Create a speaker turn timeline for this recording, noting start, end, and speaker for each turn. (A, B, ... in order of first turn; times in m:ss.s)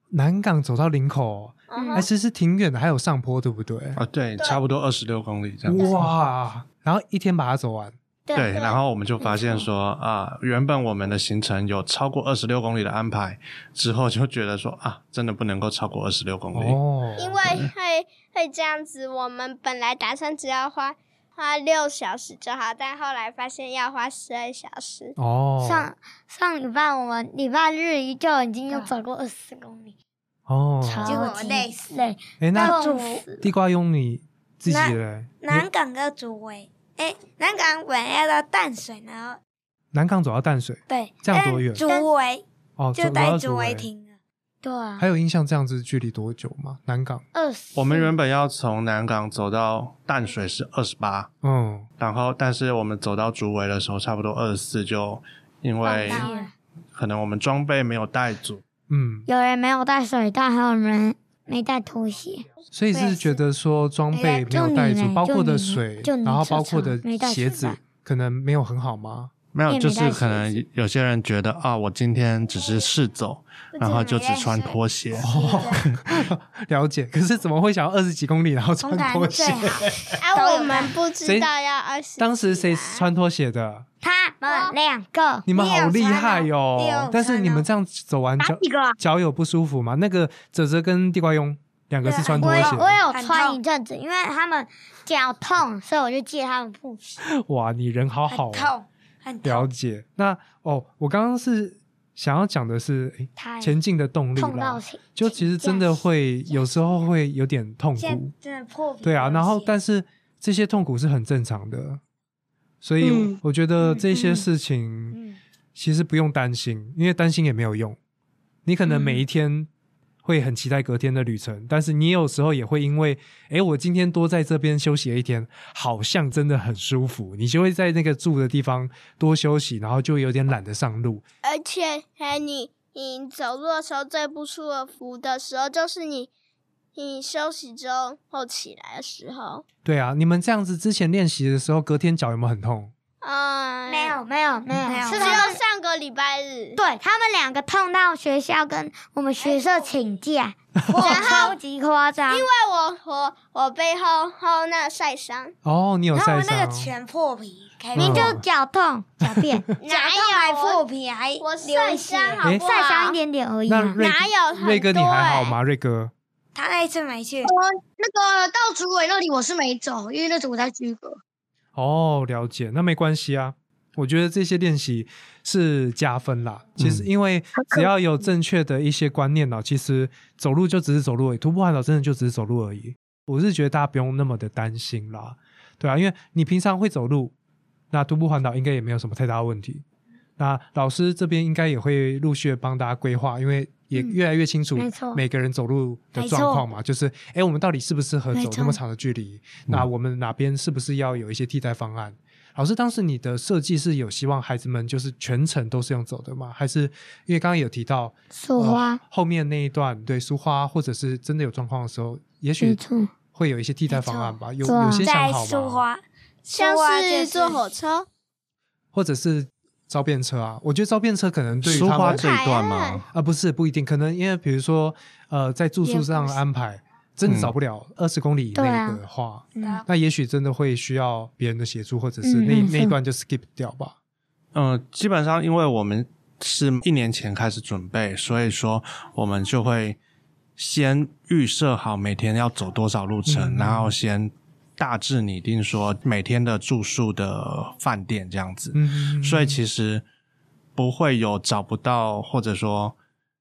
0:00.1-0:04.0 A
0:01.7-0:02.1 B
0:01.7-0:02.1 C
0:04.0-0:06.0 D
0:05.6-0:07.9 A
0:08.3-0:08.6 C
0:08.3-0:17.7 D
0:08.4-0:08.8 B
0:09.2-0:09.6 C
0:16.5-0:17.3 A
0:17.2-0:25.2 B
0:25.2-0:25.9 A
0:25.6-0:29.9 C
0:30.5-0:31.3 A
0:30.8-0:33.5 C
0:31.0-0:31.9 E
0:32.4-0:32.8 A
0:32.6-0:33.2 E
0:33.4-0:35.7 A
0:34.7-0:39.4 E
0:39.9-0:41.8 A
0:40.9-0:42.4 E
0:41.8-0:42.1 C
0:42.8-0:43.9 A
0:42.9-0:44.1 E
0:44.6-0:45.0 C
0:45.0-0:47.2 A
0:47.3-0:48.1 C
0:47.7-0:51.3 D
0:51.4-0:51.9 A
0:52.0-0:56.3 D
0:55.8-0:56.5 C
0:55.9-0:56.5 E
0:56.9-0:58.6 D
0:58.9-0:59.3 A
0:59.3-1:02.4 C
1:02.7-1:09.3 A
1:02.9-1:03.4 E
1:04.1-1:07.8 C
1:09.5-1:15.9 D
1:09.7-1:10.6 C
1:13.7-1:15.8 E
1:15.2-1:20.2 A
1:18.8-1:20.9 E
1:20.2-1:23.0 B
1:21.2-1:21.5 A
1:22.2-1:23.8 A
1:24.0-1:25.5 C
1:24.5-1:24.7 B
1:25.5-1:33.0 A
1:25.5-1:27.6 E
1:28.4-1:29.0 F
1:32.0-1:33.6 E
1:32.4-1:37.2 C
1:37.3-1:38.7 A
1:38.3-1:39.7 E
1:39.4-1:48.3 A
1:43.4-1:43.8 C
1:44.4-1:46.0 C
1:48.0-1:49.7 E
1:49.0-1:52.0 A
1:52.8-1:55.2 A
1:53.0-1:53.4 F
1:55.7-1:58.0 A
1:58.6-1:59.7 A
2:00.2-2:11.2 A
2:11.4-2:16.3 B
2:16.9-2:19.6 B
2:19.8-2:22.9 A
2:23.2-2:24.2 B
2:23.9-2:25.6 C
2:24.7-2:25.4 E
2:25.1-2:26.8 B
2:26.8-2:32.5 C
2:29.4-2:29.9 E
2:30.9-2:31.6 E
2:31.0-2:31.6 B
2:32.3-2:35.5 B
2:35.6-2:36.9 A
2:36.1-2:38.3 E
2:37.9-2:38.4 A
2:38.0-2:39.8 C
2:39.2-2:39.7 A
2:39.8-2:40.8 B
2:39.9-2:42.4 E
2:41.4-2:43.2 B
2:42.4-2:44.0 C
2:43.7-2:46.1 A
2:44.0-2:45.6 B
2:46.5-2:47.5 E
2:47.4-2:51.2 F
2:51.7-3:07.3 A
2:56.8-2:57.0 D
2:57.6-2:57.9 F
3:07.9-3:09.8 A
3:10.4-3:32.8 A
3:14.8-3:15.2 C
3:16.2-3:16.6 E
3:18.3-3:18.8 C
3:28.3-3:29.0 C
3:32.6-3:33.1 C
3:33.3-3:35.8 A
3:33.9-3:34.4 E
3:34.6-3:35.1 C
3:35.0-3:37.6 E
3:36.5-3:38.1 B
3:38.9-3:42.3 A
3:41.6-3:43.1 D
3:42.0-3:43.0 B
3:43.1-3:54.0 A
3:47.2-3:47.5 D
3:48.5-3:49.0 C
3:49.6-3:49.8 C
3:52.2-3:53.0 C
3:54.5-4:00.0 D
4:00.6-4:10.0 D
4:03.2-4:03.9 A
4:08.7-4:09.6 A
4:10.8-4:13.0 D